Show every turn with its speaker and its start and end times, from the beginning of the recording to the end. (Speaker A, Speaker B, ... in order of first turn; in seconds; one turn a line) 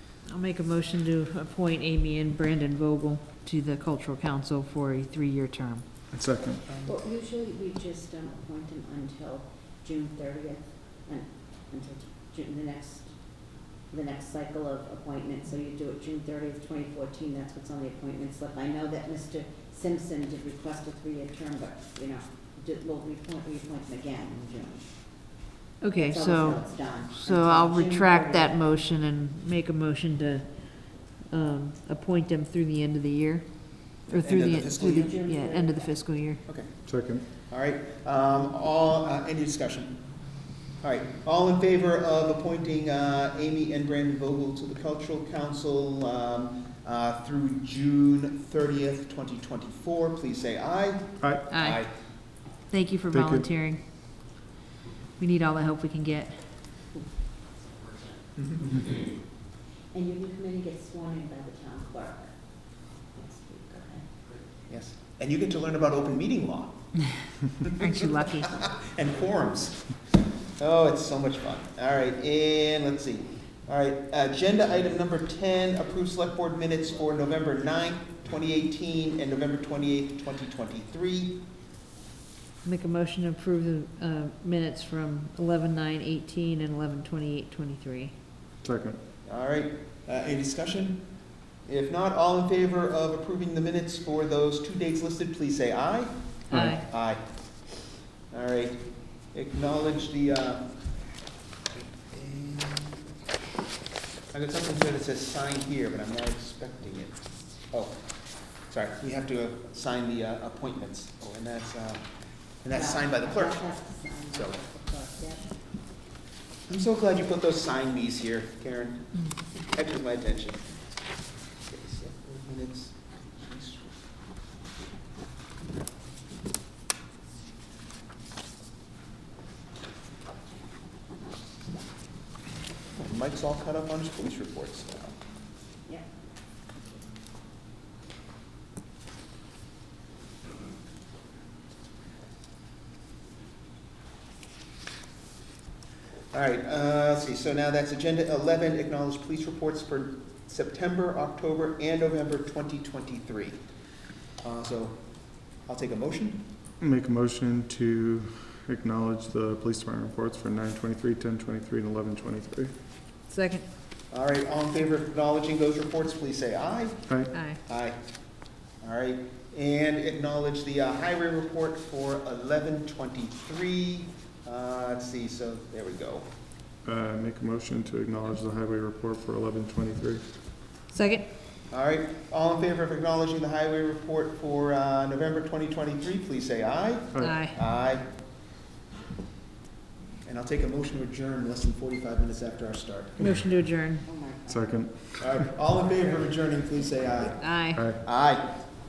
Speaker A: 0.3-5.8
Speaker B: 6.1-6.6
Speaker C: 6.7-6.9
Speaker D: 6.8-25.4
Speaker A: 25.8-36.4
Speaker D: 26.0-28.5
Speaker C: 34.2-35.1
Speaker D: 34.8-36.0
Speaker C: 36.4-40.1
Speaker B: 36.9-37.2
Speaker C: 40.8-51.9
Speaker A: 51.5-53.9
Speaker B: 53.1-53.5
Speaker A: 55.2-56.6
Speaker D: 59.9-64.2
Speaker C: 64.7-67.7
Speaker A: 67.8-68.5
Speaker C: 68.4-81.4
Speaker A: 82.6-88.1
Speaker B: 88.6-89.0
Speaker C: 89.2-97.7
Speaker B: 96.5-96.8
Speaker A: 96.5-96.8
Speaker C: 98.3-100.8
Speaker C: 101.7-103.0
Speaker C: 104.3-108.0
Speaker C: 108.6-112.1
Speaker C: 112.6-113.8
Speaker D: 112.7-115.6
Speaker C: 114.3-114.6
Speaker C: 116.7-120.7
Speaker C: 121.6-123.9
Speaker C: 133.0-135.1
Speaker C: 146.3-153.6
Speaker C: 154.4-156.4
Speaker B: 156.8-162.7
Speaker A: 163.3-163.6
Speaker C: 164.1-168.0
Speaker B: 167.1-167.3
Speaker A: 167.3-167.6
Speaker C: 168.6-176.3
Speaker B: 176.8-180.2
Speaker A: 180.9-181.2
Speaker C: 181.7-188.0
Speaker B: 187.1-187.4
Speaker A: 187.2-187.6
Speaker C: 190.2-193.2
Speaker A: 193.2-194.1
Speaker D: 194.0-194.8
Speaker B: 194.5-195.5
Speaker C: 195.2-198.6
Speaker A: 197.4-197.8
Speaker B: 197.7-198.0